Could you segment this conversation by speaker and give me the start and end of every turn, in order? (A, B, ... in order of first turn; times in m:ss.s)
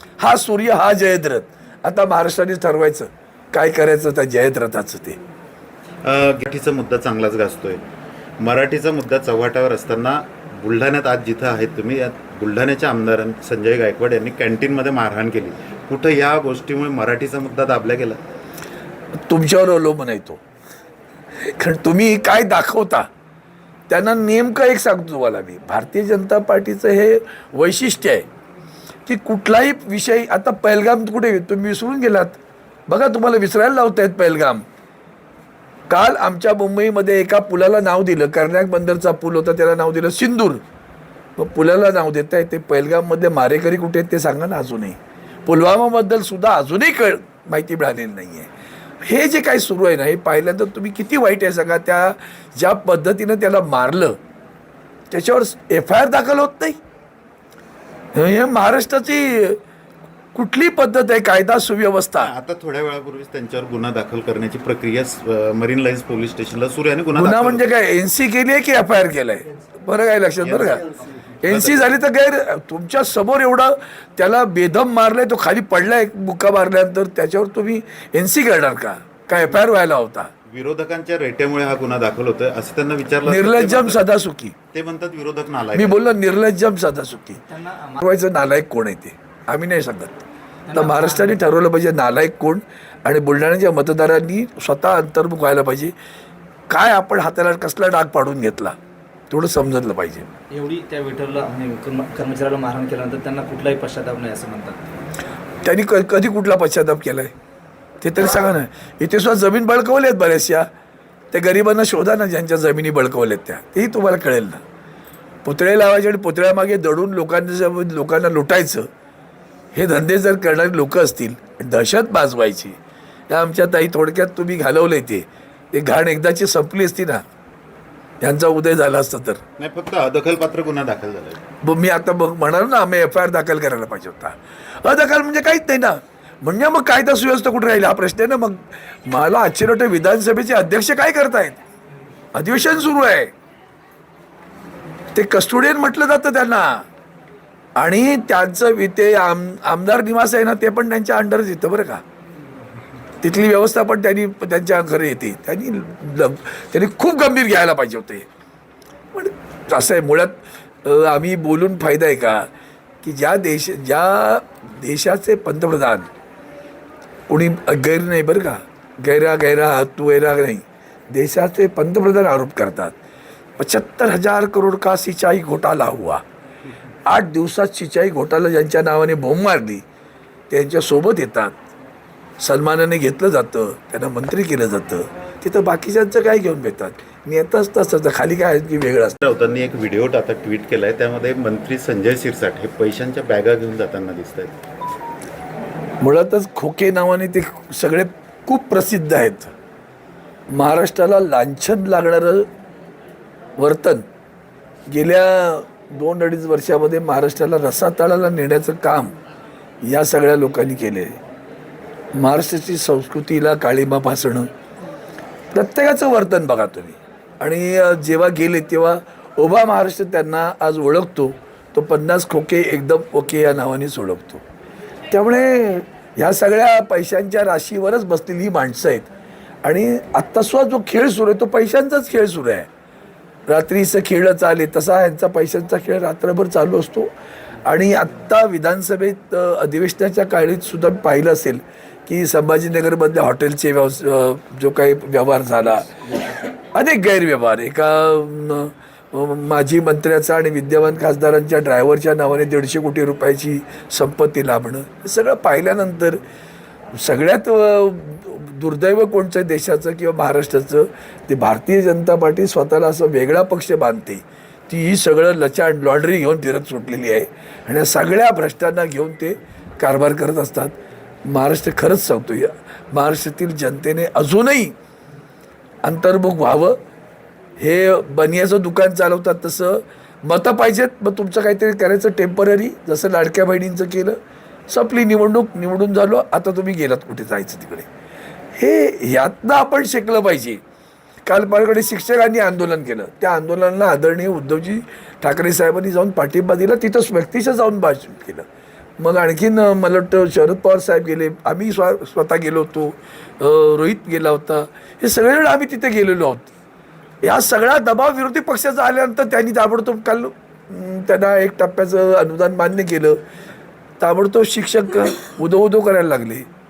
0:00.2-0:05.2 A
0:06.0-0:07.8 B
0:08.4-0:18.2 B
0:19.3-0:20.4 A
0:21.4-0:23.1 A
0:23.9-0:28.3 A
0:29.1-0:34.6 A
0:35.9-0:40.6 A
0:41.4-0:48.5 A
0:49.0-0:54.2 A
0:55.1-0:56.8 A
0:58.2-0:59.6 A
1:00.4-1:02.3 A
1:02.2-1:07.6 B
1:07.1-1:10.8 A
1:10.4-1:10.9 B
1:11.4-1:20.3 A
1:11.5-1:11.8 B
1:20.5-1:24.1 B
1:23.2-1:24.6 A
1:24.7-1:26.0 B
1:25.7-1:27.4 A
1:27.5-1:28.0 C
1:28.0-1:35.9 A
1:30.7-1:31.4 C
1:36.7-1:38.8 A
1:39.3-1:40.3 A
1:40.5-1:44.8 C
1:45.6-1:47.3 A
1:48.0-1:50.7 A
1:51.3-1:54.6 A
1:55.4-1:58.9 A
1:59.7-2:02.8 A
2:03.3-2:07.2 A
2:08.2-2:09.4 A
2:09.6-2:11.4 B
2:11.6-2:21.6 A
2:22.4-2:23.3 A
2:25.1-2:26.9 A
2:27.8-2:32.0 A
2:33.2-2:38.3 A
2:39.1-2:42.5 A
2:43.0-2:46.1 A
2:47.3-2:53.0 A
2:53.6-2:56.2 A
2:57.1-2:59.8 A
3:00.5-3:01.6 A
3:02.4-3:09.2 A
3:09.2-3:14.6 B
3:16.0-3:19.5 A
3:20.5-3:22.5 A
3:23.6-3:24.0 A
3:24.9-3:29.2 A
3:29.8-3:31.2 A
3:32.2-3:34.5 A
3:35.5-3:44.4 A
3:45.1-3:49.1 A
3:49.6-3:52.7 A
3:53.5-3:57.1 A
3:57.6-4:16.2 A
4:17.0-4:30.8 A
4:31.3-4:34.8 A
4:35.8-4:36.8 A
4:37.6-4:44.2 A
4:44.7-4:47.9 A
4:48.6-4:50.6 A
4:51.3-4:58.4 A
4:59.0-5:06.5 A
5:07.2-5:13.2 A
5:14.0-5:16.5 A